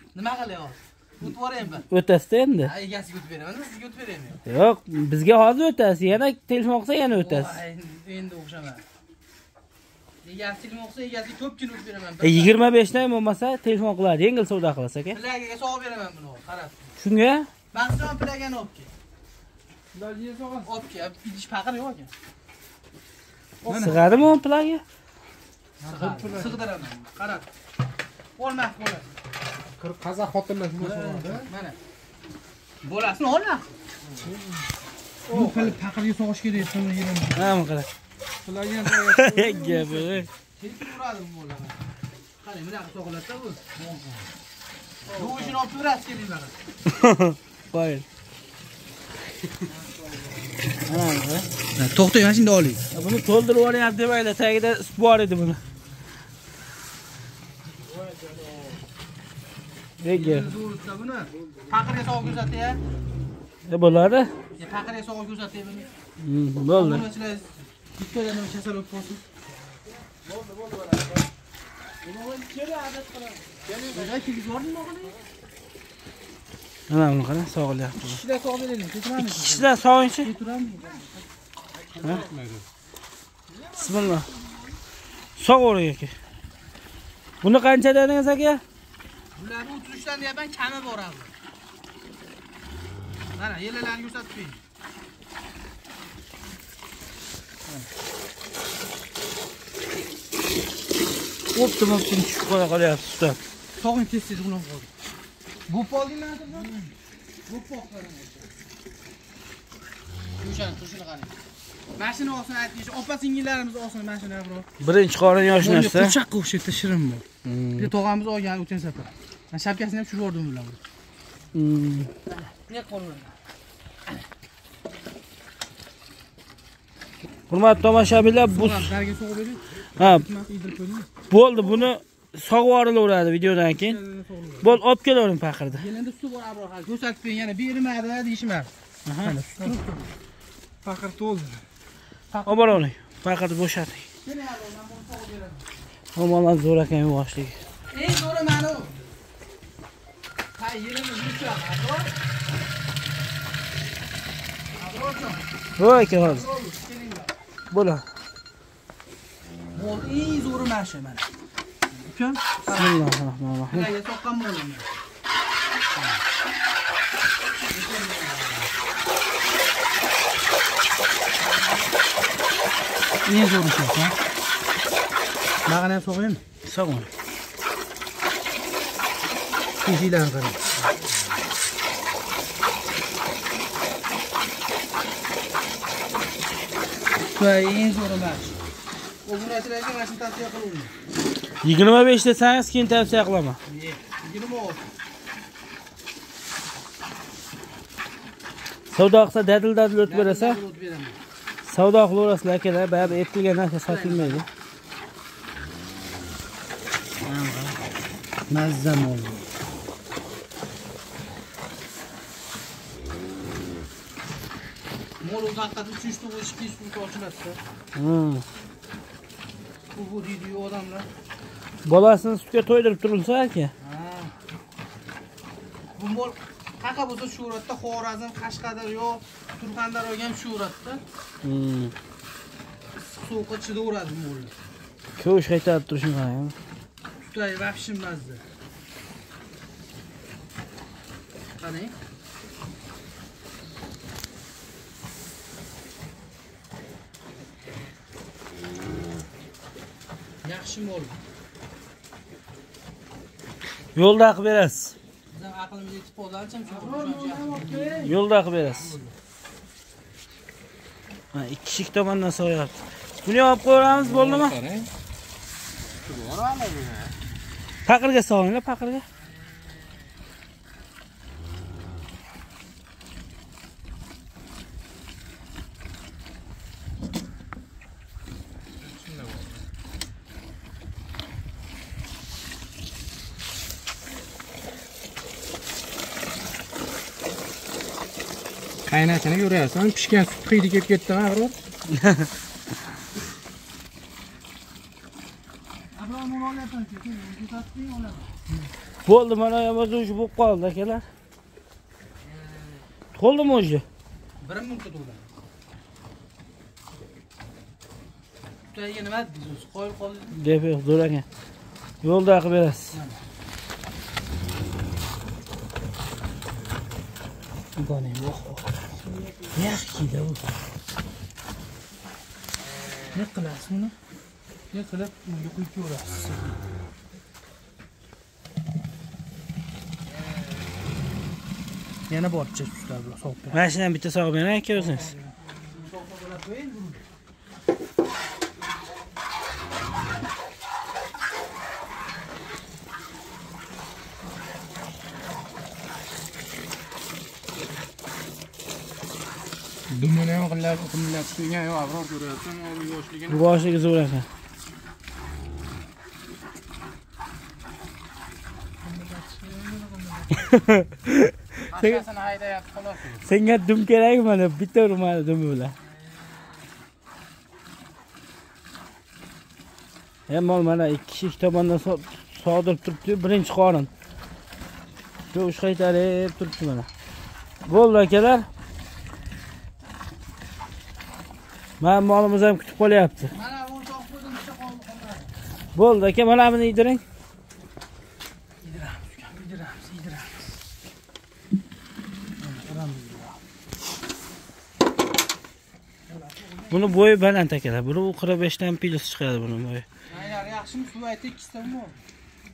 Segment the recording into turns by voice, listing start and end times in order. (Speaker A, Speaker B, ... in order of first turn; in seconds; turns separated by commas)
Speaker A: 0.1-1.9, Speaker B: 1.9-2.7, Speaker A: 2.6-4.4, Speaker B: 4.5-7.6, Speaker A: 7.1-8.8, Speaker A: 10.2-12.6, Speaker B: 12.2-15.2, Speaker A: 15.1-16.9, Speaker B: 17.0-17.5, Speaker A: 17.7-18.9, Speaker C: 19.9-20.7, Speaker A: 20.6-22.1, Speaker A: 23.6-24.1, Speaker B: 23.7-24.8, Speaker C: 25.8-26.8, Speaker A: 25.8-27.5, Speaker A: 28.4-29.1, Speaker C: 29.8-31.5, Speaker A: 30.8-31.8, Speaker A: 32.8-33.7, Speaker C: 34.1-34.7, Speaker C: 35.3-35.8, Speaker A: 35.3-37.6, Speaker B: 37.4-37.9, Speaker C: 38.4-40.2, Speaker B: 38.9-40.3, Speaker A: 40.6-41.8, Speaker A: 42.4-43.7, Speaker C: 43.8-44.2, Speaker C: 45.0-45.6, Speaker A: 45.1-46.6, Speaker B: 46.9-48.0, Speaker A: 49.7-50.0, Speaker B: 50.9-51.5, Speaker A: 51.8-52.9, Speaker B: 52.9-55.6, Speaker B: 60.0-60.5, Speaker A: 60.1-62.8, Speaker B: 63.7-64.3, Speaker A: 64.6-65.9, Speaker B: 66.2-67.1, Speaker A: 66.7-69.2, Speaker C: 70.2-71.2, Speaker C: 72.1-74.2, Speaker A: 72.1-75.2, Speaker B: 76.9-78.2, Speaker A: 78.0-81.2, Speaker B: 79.2-80.3, Speaker C: 81.7-82.6, Speaker A: 83.5-84.7, Speaker B: 83.8-84.3, Speaker B: 85.4-86.1, Speaker B: 87.4-88.6, Speaker A: 89.3-91.3, Speaker A: 93.4-94.6, Speaker B: 101.5-103.4, Speaker A: 103.8-104.9, Speaker A: 105.7-106.8, Speaker A: 107.5-108.5, Speaker A: 110.4-111.3, Speaker A: 112.0-114.7, Speaker B: 114.8-116.2, Speaker A: 115.6-117.2, Speaker B: 117.4-117.9, Speaker A: 117.8-120.8, Speaker B: 121.5-122.1, Speaker A: 122.3-123.3, Speaker B: 127.5-128.9, Speaker A: 128.5-131.1, Speaker B: 130.0-130.3, Speaker C: 130.5-130.9, Speaker B: 131.3-134.0, Speaker A: 134.0-134.7, Speaker B: 134.6-135.8, Speaker A: 135.7-138.7, Speaker B: 139.1-139.4, Speaker A: 139.2-140.1, Speaker C: 140.8-141.6, Speaker A: 142.3-142.8, Speaker B: 142.5-144.1, Speaker A: 144.2-145.7, Speaker B: 146.2-147.6, Speaker A: 147.9-148.9, Speaker A: 150.6-152.1, Speaker A: 154.8-155.4, Speaker B: 155.8-156.5, Speaker A: 156.0-157.4, Speaker B: 157.7-158.1, Speaker A: 159.7-161.2, Speaker A: 161.9-163.1, Speaker B: 162.7-163.9, Speaker A: 163.7-164.9, Speaker A: 167.7-168.7, Speaker A: 173.2-174.2, Speaker A: 175.7-176.4, Speaker B: 176.6-177.1, Speaker A: 179.8-180.6, Speaker A: 187.3-188.6, Speaker A: 189.2-190.9, Speaker B: 191.6-193.6, Speaker A: 193.7-194.9, Speaker B: 198.9-200.6, Speaker A: 200.1-201.2, Speaker B: 201.7-204.4, Speaker A: 203.8-204.4, Speaker B: 207.2-207.8, Speaker A: 208.5-209.5, Speaker A: 215.2-217.6, Speaker B: 217.9-218.4, Speaker A: 219.9-221.1, Speaker B: 221.8-223.7, Speaker A: 223.8-224.3, Speaker A: 226.0-231.0, Speaker B: 231.4-231.9, Speaker A: 233.1-234.5, Speaker B: 235.2-236.6, Speaker A: 237.2-238.4, Speaker A: 241.6-241.9, Speaker A: 250.4-251.2, Speaker B: 253.9-254.9, Speaker A: 255.3-258.1, Speaker C: 256.7-258.2, Speaker B: 258.0-259.0, Speaker C: 258.8-259.1, Speaker B: 261.3-264.6, Speaker C: 263.9-264.9, Speaker C: 266.0-267.1, Speaker B: 267.9-269.1, Speaker C: 278.8-279.6, Speaker C: 288.9-291.6, Speaker B: 291.9-292.3, Speaker A: 295.9-298.3, Speaker B: 299.1-301.1, Speaker B: 303.1-303.9, Speaker A: 304.4-305.3, Speaker A: 308.7-310.4, Speaker B: 310.4-311.2, Speaker B: 312.0-313.0, Speaker A: 312.9-313.2, Speaker B: 317.8-318.7, Speaker B: 319.6-320.5, Speaker A: 323.1-323.9, Speaker A: 324.7-326.6, Speaker A: 332.1-333.6, Speaker B: 333.5-335.1, Speaker A: 334.7-337.0, Speaker C: 349.9-353.4, Speaker B: 353.3-354.3, Speaker A: 358.9-360.3, Speaker B: 360.4-362.0, Speaker C: 361.7-363.2, Speaker B: 363.2-365.8, Speaker B: 370.3-373.9, Speaker B: 375.3-376.9, Speaker B: 377.7-378.5, Speaker B: 381.8-383.3, Speaker A: 383.3-385.4, Speaker B: 385.8-387.0, Speaker A: 388.6-390.6, Speaker A: 392.4-393.4, Speaker A: 396.1-397.0, Speaker B: 396.7-399.9, Speaker A: 400.1-402.0